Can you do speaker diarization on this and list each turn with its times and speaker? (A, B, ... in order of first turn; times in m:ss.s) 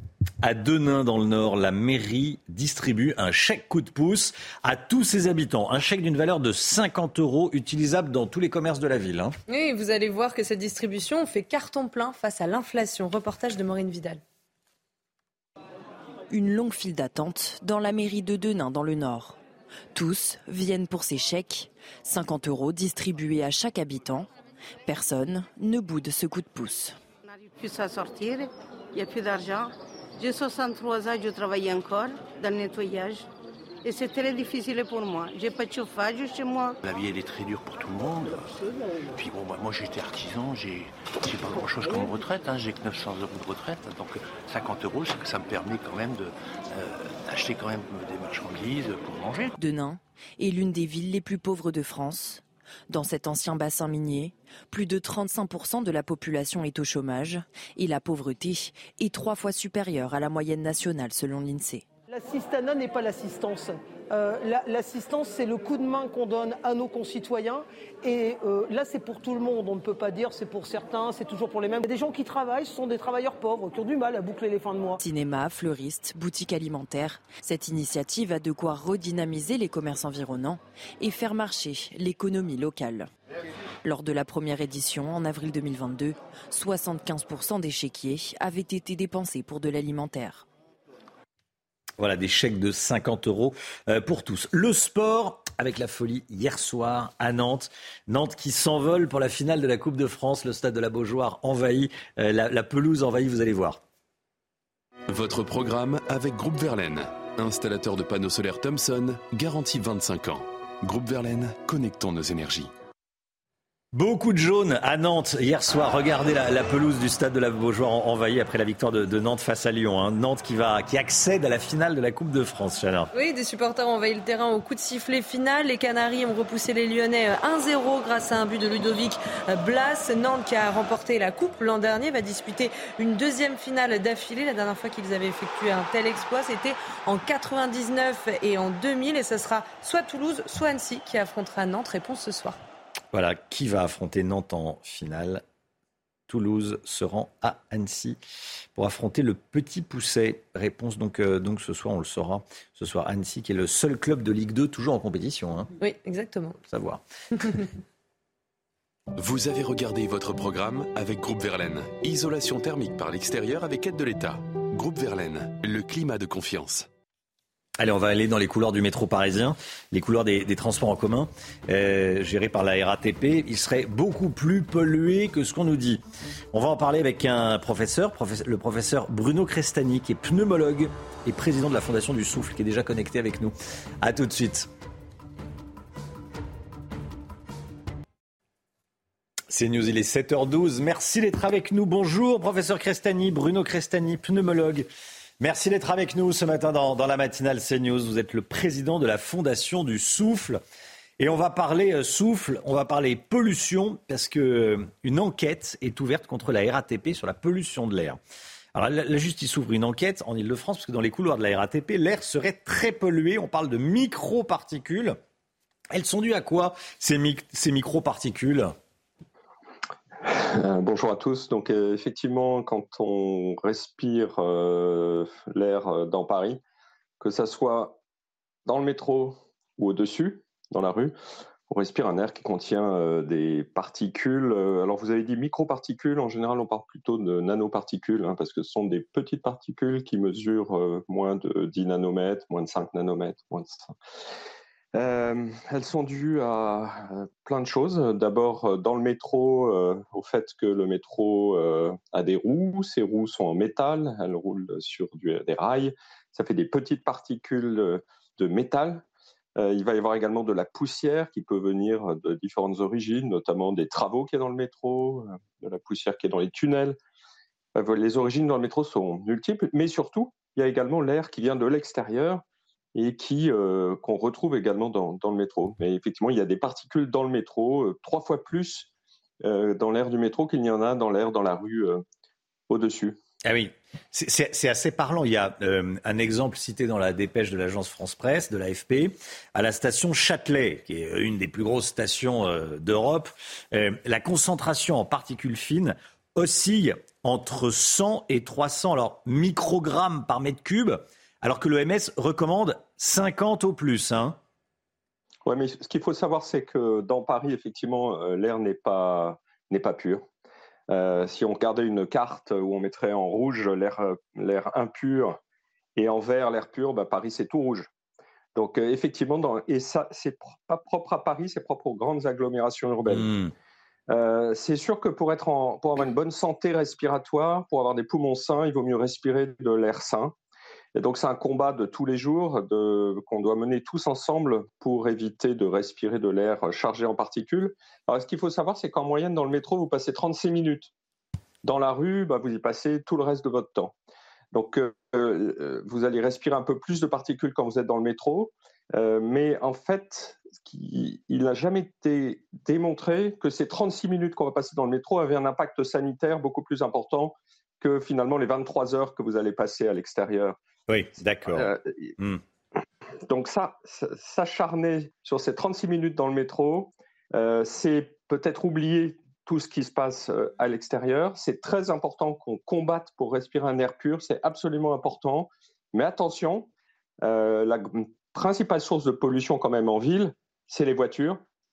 0:00.4-0:09.3 A
0:09.5-0:14.2 B
0:16.3-0:19.4 C
0:19.9-0:24.3 C
0:24.8-0:27.0 C
0:27.3-0:33.2 D
0:33.8-0:36.8 D
0:36.8-0:38.6 E
0:39.2-0:49.6 E
0:49.6-1:01.8 C
1:02.1-1:15.0 F
1:15.0-1:23.1 C
1:23.8-1:30.4 C
1:32.0-1:43.8 A
1:45.1-1:52.7 G
1:53.9-2:03.1 A
2:03.1-2:22.6 B
2:23.1-2:25.4 A
2:26.3-2:28.2 A
2:28.7-2:35.7 A
2:35.8-2:36.6 B
2:36.7-2:37.0 A
2:37.4-2:37.6 B
2:39.2-2:46.9 G
2:47.8-2:56.0 A
2:56.5-3:04.7 A
3:09.5-3:14.9 A
3:15.4-3:20.6 A
3:21.2-3:28.2 A
3:28.7-3:35.2 A
3:35.9-3:38.7 A
3:40.2-3:46.6 H
3:47.2-3:48.0 H
3:48.6-3:51.1 H
3:51.7-4:03.9 H
4:04.9-4:19.0 H
4:19.6-4:27.0 H
4:27.8-4:32.4 H
4:32.9-4:38.9 H
4:39.4-4:42.0 H
4:42.7-4:43.2 H
4:43.4-5:04.4 A
5:05.4-5:10.2 H
5:10.9-5:15.4 H
5:16.0-5:17.9 H
5:18.5-5:23.3 H
5:23.1-5:23.5 A
5:24.1-5:30.3 H
5:30.9-5:40.9 H
5:41.6-5:43.9 H
5:44.5-6:00.5 H
6:00.9-6:02.4 A
6:01.5-6:02.1 H
6:03.3-6:16.7 H
6:17.2-6:21.4 H